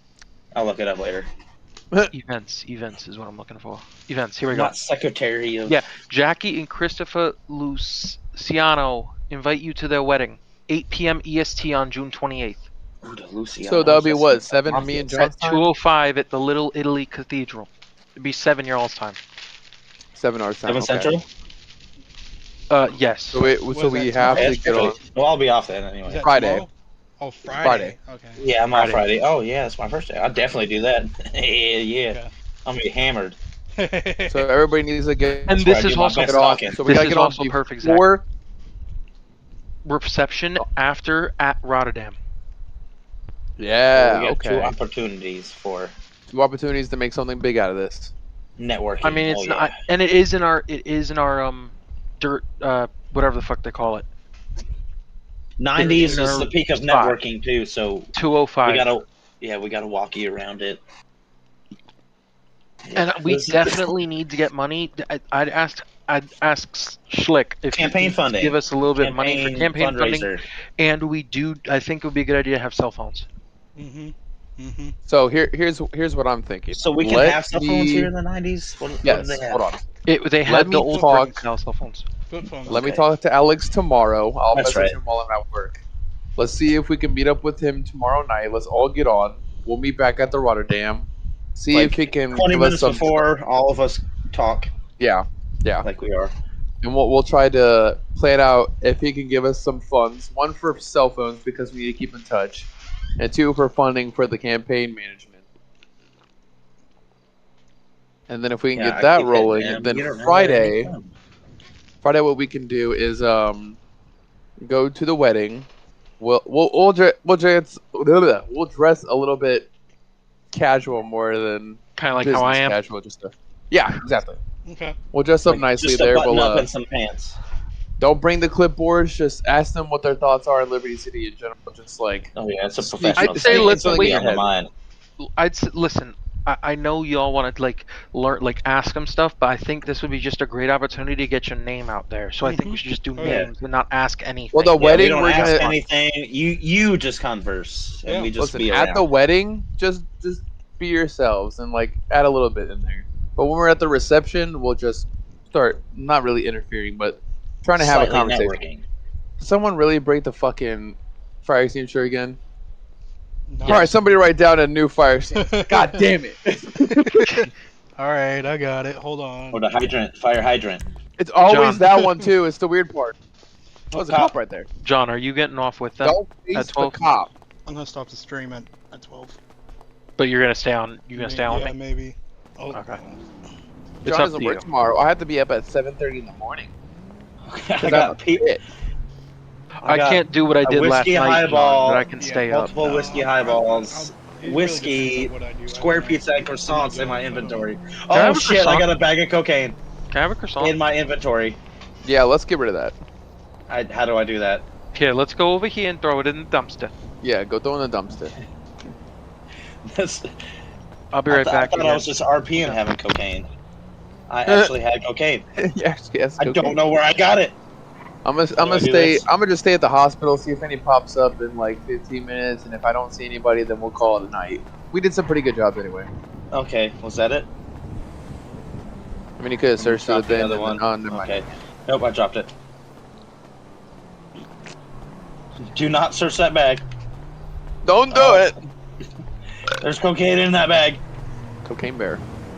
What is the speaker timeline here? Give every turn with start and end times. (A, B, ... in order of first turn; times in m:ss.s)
0:00.5-0:01.3 A
0:02.1-0:04.7 B
0:04.5-0:05.8 A
0:05.6-0:12.6 B
0:13.0-0:15.0 A
0:13.6-0:15.7 C
0:14.7-0:19.2 B
0:20.1-0:21.1 C
0:20.7-0:21.2 A
0:22.7-0:23.5 B
0:23.3-0:25.0 C
0:23.7-0:24.8 D
0:24.3-0:26.2 A
0:26.0-0:28.4 D
0:26.2-0:26.6 C
0:27.5-0:27.9 C
0:28.4-0:33.4 A
0:28.7-0:29.0 B
0:33.8-0:34.4 D
0:34.3-0:35.6 C
0:35.5-0:38.0 B
0:35.6-0:36.8 A
0:36.2-0:38.2 C
0:39.8-0:42.2 B
0:43.6-0:44.7 C
0:43.9-0:46.0 A
0:46.3-0:48.1 C
0:48.6-0:49.7 A
0:49.0-0:54.1 B
0:55.6-0:58.1 A
0:55.8-0:57.2 B
0:58.2-0:58.9 B
0:58.6-1:00.8 A
1:02.9-1:03.9 A
1:03.0-1:13.2 B
1:07.7-1:10.4 A
1:13.8-1:14.9 D
1:15.0-1:18.1 C
1:16.7-1:19.6 A
1:19.0-1:19.8 C
1:20.0-1:22.1 B
1:20.4-1:21.3 C
1:21.0-1:21.3 D
1:22.3-1:22.8 D
1:22.7-1:23.0 A
1:22.7-1:25.8 C
1:24.5-1:25.0 A
1:26.4-1:33.2 C
1:31.7-1:34.7 A
1:35.0-1:35.8 C
1:35.8-1:36.3 A
1:36.8-1:45.4 C
1:48.3-1:50.9 C
1:48.7-1:51.1 A
1:52.0-1:53.8 C
1:54.6-1:55.7 C
1:56.2-1:59.7 C
2:00.5-2:04.4 C
2:02.0-2:02.8 B
2:04.7-2:05.0 D
2:05.1-2:06.7 C
2:05.4-2:07.4 A
2:08.0-2:12.3 C
2:12.3-2:14.7 A
2:12.8-2:14.4 C
2:13.4-2:14.2 B
2:15.2-2:25.6 B
2:22.4-2:23.4 D
2:23.2-2:23.5 A
2:24.5-2:25.8 C
2:24.8-2:29.0 A
2:28.3-2:38.6 C
2:37.8-2:38.8 A
2:39.4-2:42.4 C
2:43.5-2:43.9 D
2:43.6-2:46.5 C
2:45.3-2:45.9 D
2:48.0-2:49.6 D
2:49.5-2:50.9 A
2:51.2-2:53.2 C
2:51.4-2:51.8 B
2:53.9-2:54.7 C
2:53.9-2:54.3 A
2:54.8-2:57.0 B
2:56.0-2:57.3 C
2:57.7-2:59.4 D
3:00.2-3:01.7 B
3:01.2-3:03.2 D
3:02.7-3:03.0 B
3:04.0-3:04.6 B
3:04.0-3:06.7 C
3:07.4-3:08.6 A
3:07.8-3:08.6 C
3:09.8-3:19.8 A
3:09.9-3:13.1 B
3:12.2-3:17.7 D
3:18.1-3:18.9 B
3:20.1-3:20.8 B
3:20.6-3:21.6 A
3:22.0-3:23.0 C
3:23.7-3:24.7 A
3:24.9-3:26.9 B
3:27.2-3:28.3 C
3:29.8-3:30.3 A
3:31.1-3:32.8 B
3:31.3-3:33.5 A
3:34.3-3:35.4 A
3:35.6-3:36.8 C
3:36.4-3:37.6 A
3:38.2-3:46.1 C
3:38.6-3:39.3 A
3:46.5-3:47.5 A
3:49.4-3:51.4 C
3:49.8-3:52.5 A
3:55.6-3:56.8 A
3:57.8-3:58.6 C
3:58.1-3:58.6 A
3:59.8-4:01.0 A
4:01.6-4:02.2 C